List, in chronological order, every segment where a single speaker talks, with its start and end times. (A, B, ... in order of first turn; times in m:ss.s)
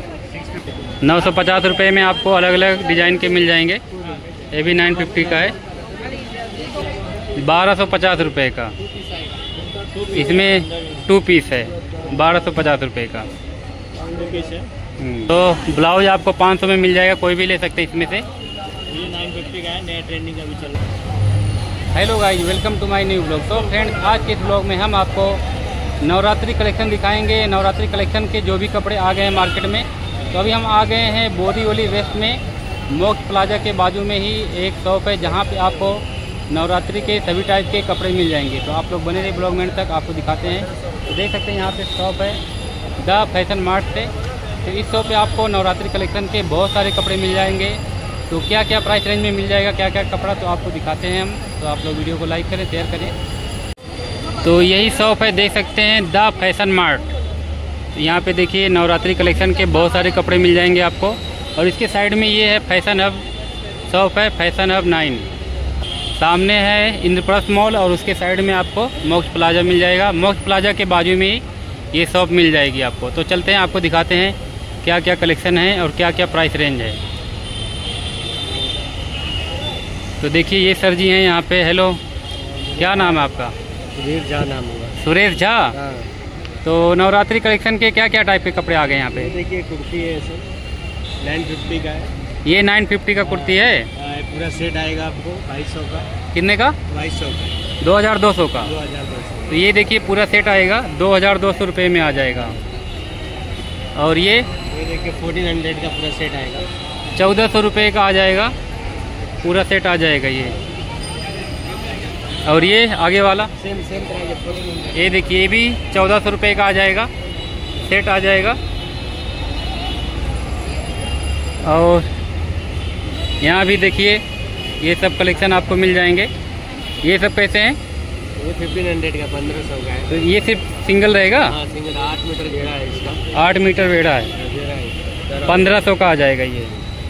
0:00.3-0:01.0 A
0:01.0-0:03.8 B
0:04.5-0:05.6 B
0:07.4-0:08.8 B
0:09.9-0:10.8 A
0:10.1-0:13.3 B
0:14.1-0:14.7 A
0:15.0-0:18.3 B
0:18.9-0:20.8 A
0:21.9-0:25.4 B
0:26.0-0:42.4 B
0:43.0-0:44.1 B
0:44.6-0:53.1 B
0:54.4-0:57.0 B
0:58.0-1:03.2 B
1:03.9-1:05.3 B
1:06.2-1:17.0 B
1:20.2-1:22.0 B
1:22.7-1:23.3 A
1:22.8-1:23.5 B
1:24.0-1:25.0 A
1:25.0-1:25.8 B
1:25.7-1:26.1 A
1:26.6-1:29.3 B
1:29.1-1:30.5 A
1:31.2-1:32.1 A
1:32.4-1:33.9 B
1:33.2-1:36.1 A
1:36.3-1:36.8 B
1:36.9-1:37.6 A
1:37.8-1:38.7 B
1:38.6-1:39.6 A
1:39.5-1:42.6 B
1:44.0-1:44.5 B
1:44.7-1:46.7 A
1:47.2-1:48.5 B
1:49.4-1:50.5 B
1:52.5-1:53.5 B
1:53.6-1:54.9 A
1:54.9-1:57.1 B
1:57.8-1:58.6 B
2:01.6-2:02.1 B
2:03.4-2:04.2 B
2:04.8-2:06.3 B
2:07.0-2:07.8 B
2:08.4-2:10.1 A
2:10.1-2:11.6 B
2:11.5-2:13.2 A
2:13.3-2:14.3 B
2:14.4-2:15.8 A
2:15.4-2:16.7 B